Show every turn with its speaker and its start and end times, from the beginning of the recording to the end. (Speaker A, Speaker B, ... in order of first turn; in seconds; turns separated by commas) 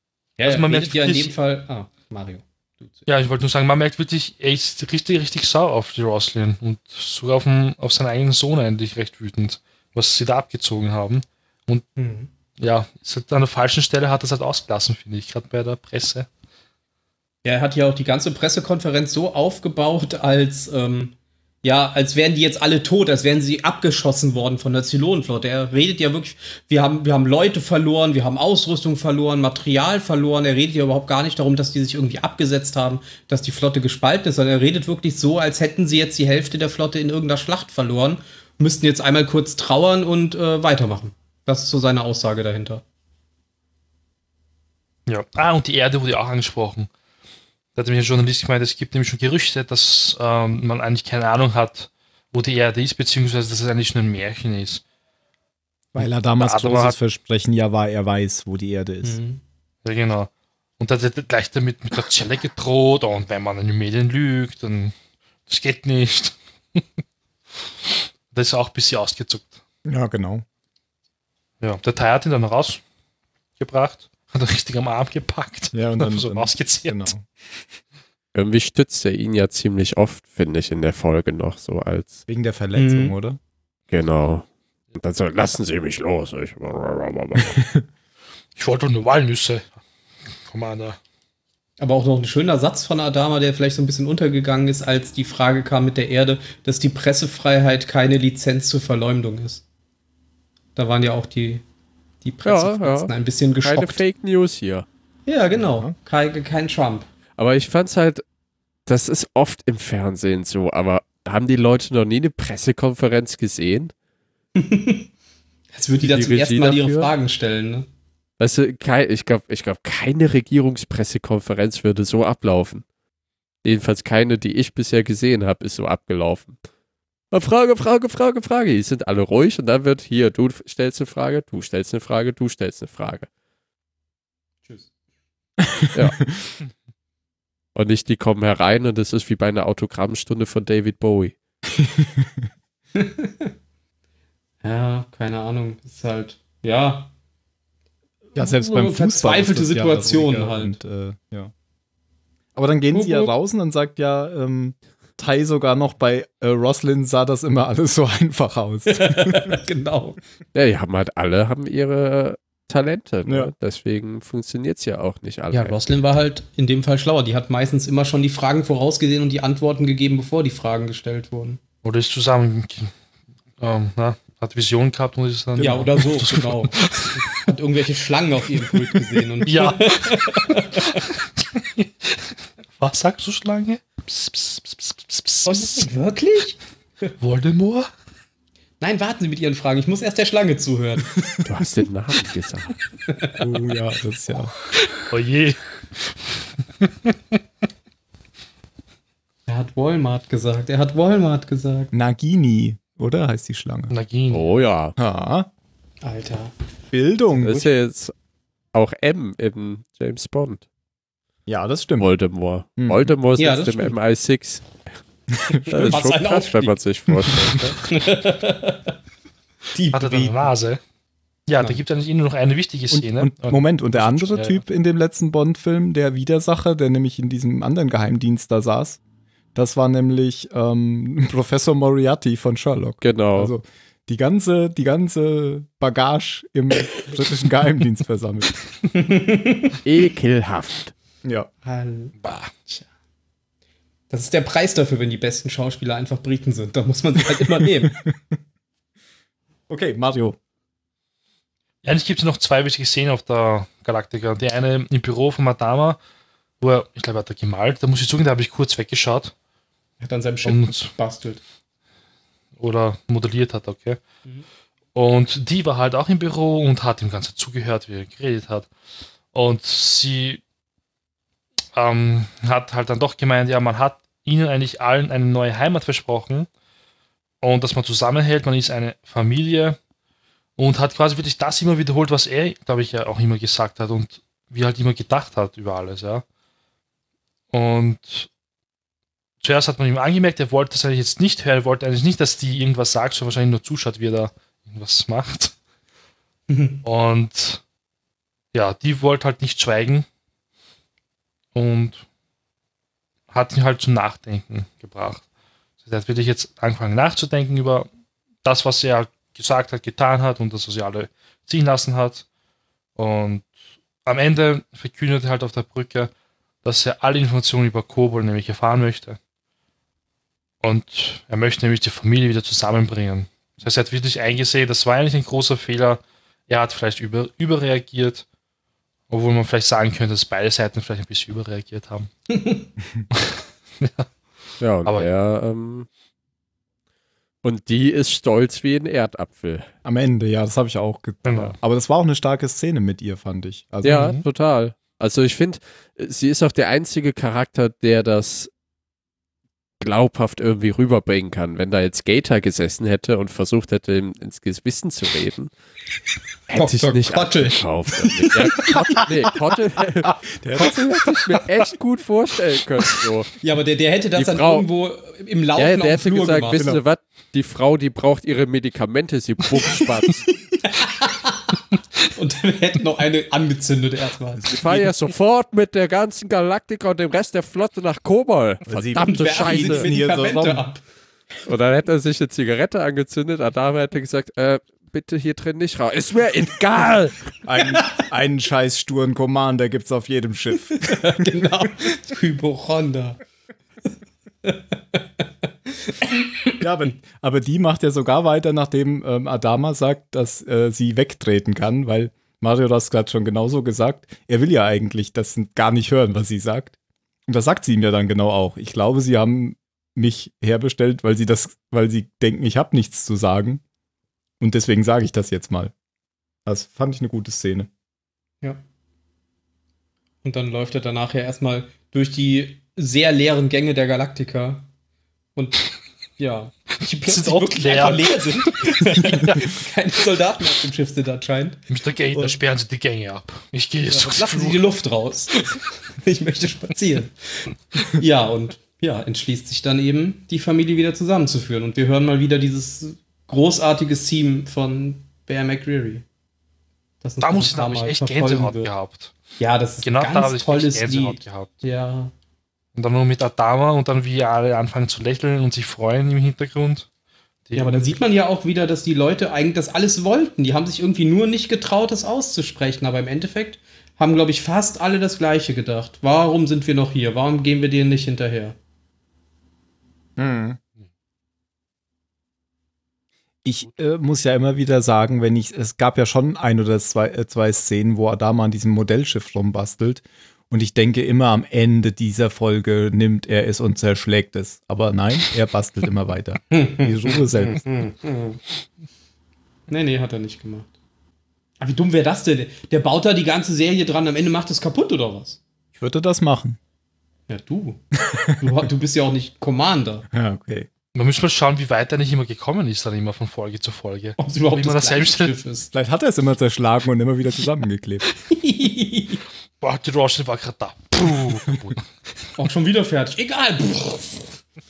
Speaker A: 0.4-3.1, Speaker B: 0.4-1.3, Speaker B: 3.1-11.9, Speaker A: 12.0-12.3, Speaker B: 12.6-16.3, Speaker A: 17.4-42.8, Speaker B: 45.1-46.9, Speaker B: 47.8-54.8, Speaker C: 55.9-59.2, Speaker B: 56.0-57.0, Speaker A: 59.0-59.4, Speaker B: 59.8-65.0, Speaker B: 65.5-66.8, Speaker B: 67.6-69.6, Speaker C: 69.8-70.4, Speaker B: 71.6-72.8, Speaker B: 73.6-77.1, Speaker C: 75.7-77.3, Speaker D: 78.3-82.2, Speaker C: 82.3-83.4, Speaker A: 82.8-83.1, Speaker D: 83.9-87.6, Speaker C: 87.4-87.8, Speaker B: 88.6-89.8, Speaker B: 90.4-91.0, Speaker A: 91.8-99.6, Speaker A: 100.8-101.6, Speaker A: 102.2-104.0, Speaker D: 102.5-104.9, Speaker A: 105.3-107.1, Speaker C: 105.5-105.9, Speaker D: 107.4-108.2, Speaker D: 108.9-113.9, Speaker A: 114.6-115.1, Speaker A: 115.7-117.9, Speaker D: 116.0-117.1, Speaker D: 118.4-122.8, Speaker D: 123.6-126.6, Speaker D: 127.3-133.3, Speaker C: 135.6-136.6, Speaker D: 137.8-141.3, Speaker C: 141.7-142.5, Speaker A: 143.0-143.5, Speaker A: 144.6-147.1, Speaker C: 148.3-151.5, Speaker A: 148.4-150.8, Speaker C: 152.6-159.6, Speaker A: 152.9-153.3, Speaker A: 158.9-160.2, Speaker D: 160.5-165.8, Speaker C: 163.3-163.5, Speaker A: 165.5-171.6, Speaker B: 171.8-172.9, Speaker B: 173.6-177.4, Speaker C: 175.6-175.9, Speaker A: 175.6-176.8, Speaker A: 177.4-181.0, Speaker B: 179.4-185.9, Speaker A: 185.5-187.1, Speaker B: 187.2-187.9, Speaker A: 188.8-191.1, Speaker C: 191.2-191.5, Speaker D: 191.4-192.7, Speaker A: 193.1-193.4, Speaker C: 193.4-194.5, Speaker B: 195.0-196.2, Speaker B: 196.7-197.2, Speaker A: 199.5-201.9, Speaker C: 201.9-203.9, Speaker B: 203.9-204.5, Speaker D: 204.3-204.9, Speaker C: 205.0-205.5, Speaker A: 206.0-206.5, Speaker C: 206.9-207.7, Speaker D: 207.4-208.1, Speaker D: 208.7-210.6, Speaker C: 211.5-212.1, Speaker D: 212.0-214.7, Speaker C: 212.8-213.1, Speaker A: 213.4-213.9, Speaker C: 215.3-216.0, Speaker D: 215.6-217.8, Speaker A: 215.7-216.8, Speaker A: 217.8-219.0, Speaker A: 219.8-220.5, Speaker B: 219.9-220.8, Speaker B: 221.5-224.6, Speaker C: 222.9-229.0, Speaker C: 229.6-238.5, Speaker D: 233.0-233.5, Speaker A: 238.9-239.8, Speaker D: 239.8-240.9, Speaker C: 241.2-241.5, Speaker A: 241.6-242.2, Speaker B: 242.2-242.6, Speaker A: 244.1-248.0, Speaker C: 247.9-248.4, Speaker C: 249.7-250.4, Speaker B: 251.8-256.0, Speaker B: 256.6-259.3, Speaker A: 260.0-261.4, Speaker B: 260.4-260.9, Speaker B: 262.6-264.0, Speaker B: 264.9-268.7, Speaker B: 269.3-270.4, Speaker B: 271.8-276.5, Speaker B: 277.4-279.8, Speaker B: 280.6-286.2, Speaker B: 287.5-288.3, Speaker B: 289.4-295.6, Speaker A: 296.5-296.8, Speaker B: 296.8-297.6, Speaker B: 298.5-300.1, Speaker B: 301.5-302.0, Speaker B: 303.3-305.2, Speaker B: 305.8-307.9, Speaker B: 308.4-312.2, Speaker B: 313.0-313.5, Speaker B: 314.1-316.1, Speaker B: 316.6-319.2, Speaker B: 320.6-328.2, Speaker B: 329.1-332.1, Speaker A: 332.3-332.7, Speaker B: 333.1-334.1, Speaker D: 334.6-335.9, Speaker D: 337.4-339.7, Speaker C: 339.9-344.1, Speaker B: 341.2-341.6, Speaker B: 343.8-344.2, Speaker D: 343.8-348.5, Speaker D: 349.8-355.5, Speaker D: 356.5-363.4, Speaker A: 356.5-357.6, Speaker C: 360.4-361.0, Speaker A: 363.4-366.6, Speaker D: 364.2-364.7, Speaker D: 365.6-370.3, Speaker C: 366.6-366.8, Speaker A: 370.6-371.6, Speaker A: 372.1-374.5, Speaker D: 374.4-379.9, Speaker C: 374.5-374.8, Speaker C: 378.7-380.7, Speaker A: 379.0-380.8, Speaker D: 381.4-387.2, Speaker C: 387.4-391.5, Speaker A: 390.7-393.2, Speaker A: 395.9-396.5, Speaker C: 396.6-406.8, Speaker C: 407.3-413.6, Speaker C: 414.4-415.7, Speaker C: 416.5-417.7, Speaker A: 420.2-424.7, Speaker A: 425.4-425.7, Speaker A: 426.2-432.4, Speaker B: 427.1-429.6, Speaker B: 431.7-434.6, Speaker A: 433.9-446.1, Speaker A: 447.0-448.7, Speaker B: 447.2-449.1, Speaker A: 449.4-452.1, Speaker B: 449.8-451.5, Speaker B: 452.8-456.9, Speaker B: 457.5-458.0, Speaker A: 457.6-468.6, Speaker C: 470.2-470.6, Speaker C: 473.4-487.6, Speaker A: 486.5-488.4, Speaker A: 489.7-490.7, Speaker A: 491.6-495.4, Speaker C: 495.8-496.6, Speaker A: 497.3-497.8, Speaker C: 498.0-498.7, Speaker A: 498.4-500.1, Speaker C: 500.1-500.7, Speaker B: 500.9-505.4, Speaker A: 504.2-505.7, Speaker C: 505.7-508.1, Speaker A: 508.3-509.2, Speaker B: 509.6-511.8, Speaker A: 512.4-514.4